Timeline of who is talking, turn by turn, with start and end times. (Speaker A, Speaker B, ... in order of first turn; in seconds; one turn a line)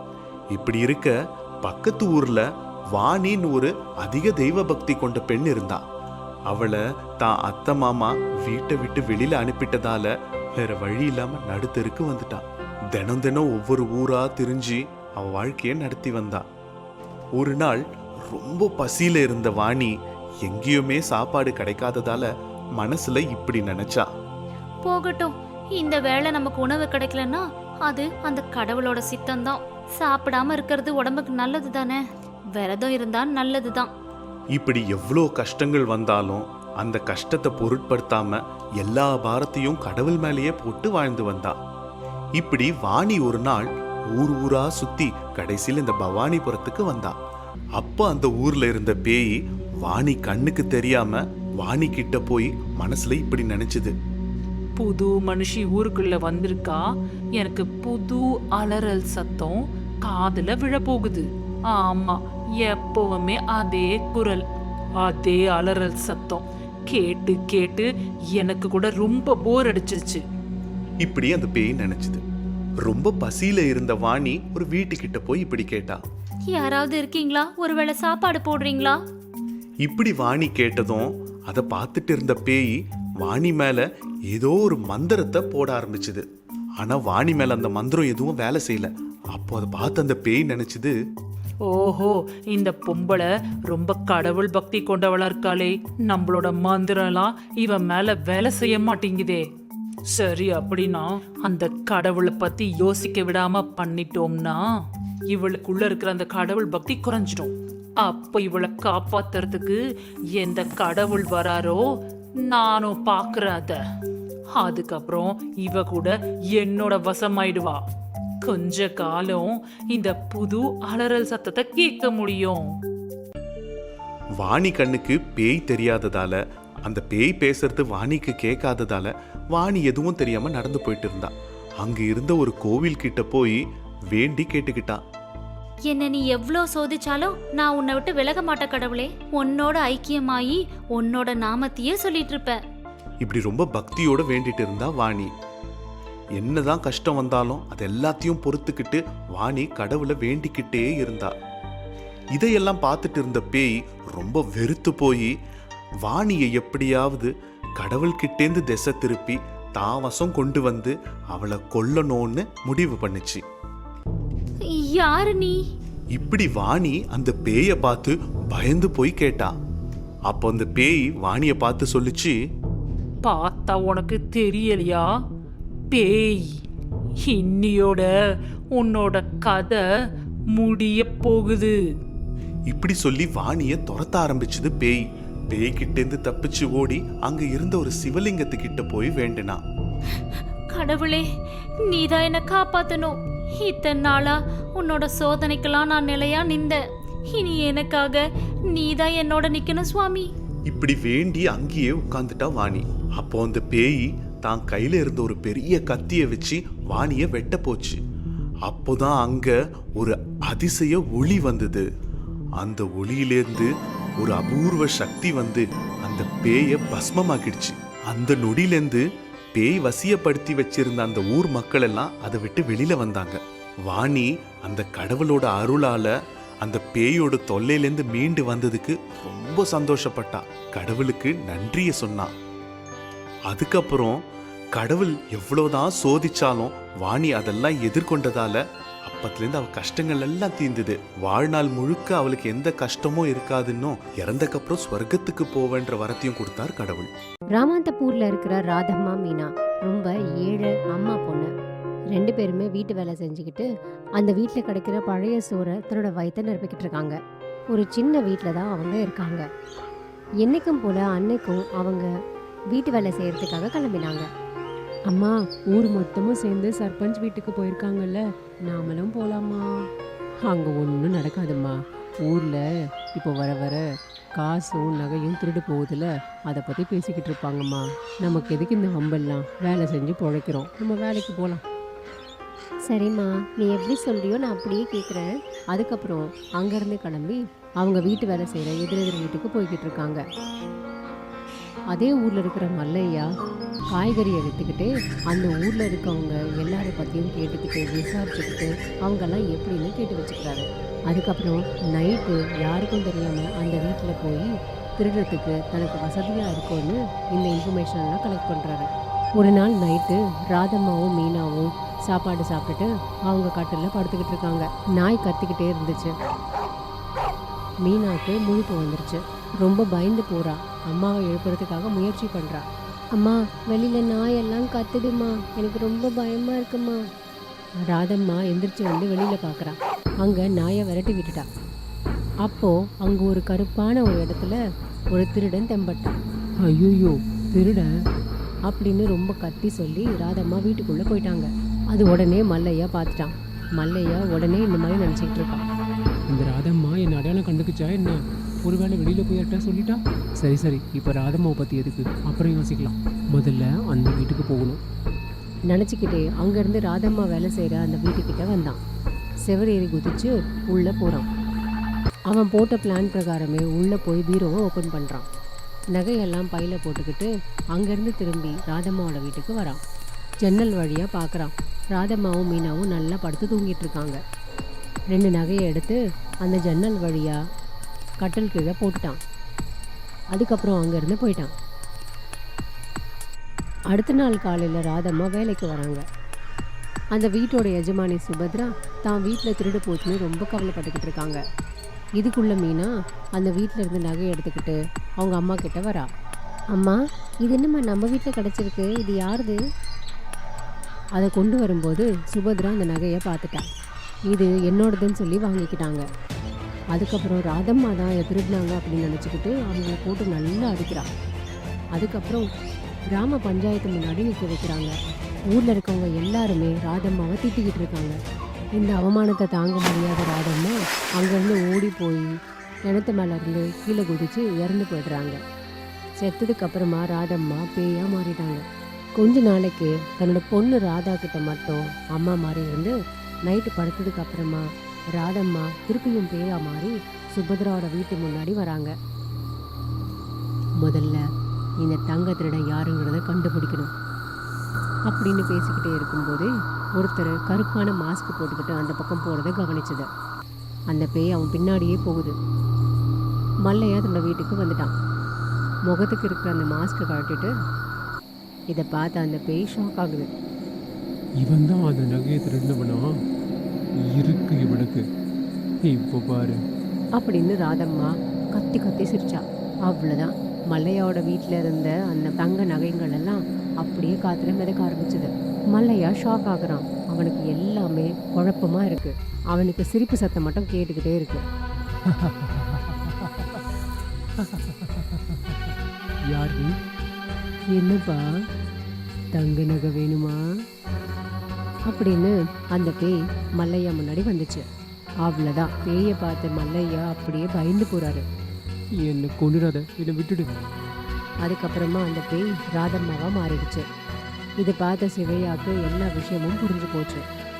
Speaker A: 0.5-5.8
Speaker A: 6.5-16.4
Speaker A: 17.4-24.1
Speaker B: 24.8-32.0
Speaker B: 32.5-33.9
Speaker A: 34.5-41.6
Speaker A: 42.4-47.1
Speaker A: 47.8-53.9
Speaker C: 54.8-56.8
Speaker C: 57.4-64.4
Speaker C: 65.0-70.2
Speaker A: 71.0-72.2
Speaker A: 72.8-76.0
Speaker B: 76.5-79.0
Speaker A: 79.8-86.2
Speaker A: 86.8-91.0
Speaker C: 91.7-99.4
Speaker C: 100.1-104.6
Speaker C: 105.3-109.8
Speaker C: 110.3-111.8
Speaker C: 112.5-113.8
Speaker C: 114.5-117.8
Speaker C: 118.4-122.6
Speaker A: 124.4-135.0
Speaker B: 135.9-142.6
Speaker A: 143.2-145.3
Speaker A: 146.4-151.3
Speaker A: 152.3-155.3
Speaker A: 156.0-163.4
Speaker B: 164.6-165.6
Speaker A: 166.1-169.5
Speaker A: 170.3-172.4
Speaker C: 173.2-175.1
Speaker C: 175.9-176.6
Speaker C: 177.2-178.1
Speaker C: 178.7-179.8
Speaker C: 180.5-181.7
Speaker A: 182.7-189.6
Speaker B: 190.7-191.3
Speaker B: 191.8-196.8
Speaker B: 197.3-200.3
Speaker A: 200.7-208.0
Speaker A: 208.6-211.8
Speaker A: 212.6-232.3
Speaker A: 233.5-234.2
Speaker A: 234.7-247.1
Speaker D: 247.5-251.5
Speaker D: 252.1-253.7
Speaker D: 254.2-257.2
Speaker D: 257.7-259.4
Speaker D: 260.4-262.1
Speaker D: 262.7-264.3
Speaker D: 265.1-269.6
Speaker D: 270.4-272.6
Speaker D: 273.1-273.8
Speaker D: 274.4-281.6
Speaker D: 282.9-290.2
Speaker D: 291.9-293.3
Speaker D: 293.9-316.1
Speaker D: 317.8-327.0
Speaker D: 327.9-331.4
Speaker D: 332.4-334.6
Speaker D: 335.1-336.2
Speaker E: 336.6-337.8
Speaker D: 338.7-345.6
Speaker E: 346.3-354.8
Speaker D: 355.7-358.8
Speaker D: 359.4-361.3
Speaker D: 362.3-365.3
Speaker D: 365.9-369.8
Speaker D: 370.4-374.2
Speaker D: 375.1-377.4
Speaker D: 378.2-379.2
Speaker D: 380.3-381.5
Speaker D: 383.9-386.0
Speaker D: 387.1-391.4
Speaker D: 392.2-396.1
Speaker D: 396.7-399.6
Speaker D: 401.2-403.6
Speaker D: 404.3-406.0
Speaker D: 406.9-411.1
Speaker D: 411.9-412.4
Speaker D: 413.1-414.9
Speaker D: 415.5-418.1
Speaker D: 418.8-422.3
Speaker D: 422.9-425.4
Speaker D: 426.2-428.6
Speaker D: 429.2-432.9
Speaker D: 433.5-434.6
Speaker D: 435.1-438.9
Speaker D: 440.8-441.2
Speaker D: 441.8-443.9
Speaker D: 445.1-450.1
Speaker D: 450.9-452.3
Speaker D: 453.6-454.9
Speaker D: 455.9-457.5
Speaker D: 458.7-460.3
Speaker E: 461.4-463.1
Speaker E: 464.1-465.0
Speaker E: 465.8-466.6
Speaker D: 467.2-481.4
Speaker E: 482.1-483.1
Speaker E: 484.4-485.0
Speaker E: 486.3-486.8
Speaker D: 487.7-488.2
Speaker D: 489.3-490.4
Speaker D: 491.9-494.6
Speaker D: 495.2-498.2
Speaker E: 499.0-500.5
Speaker D: 501.4-503.8
Speaker D: 504.6-507.2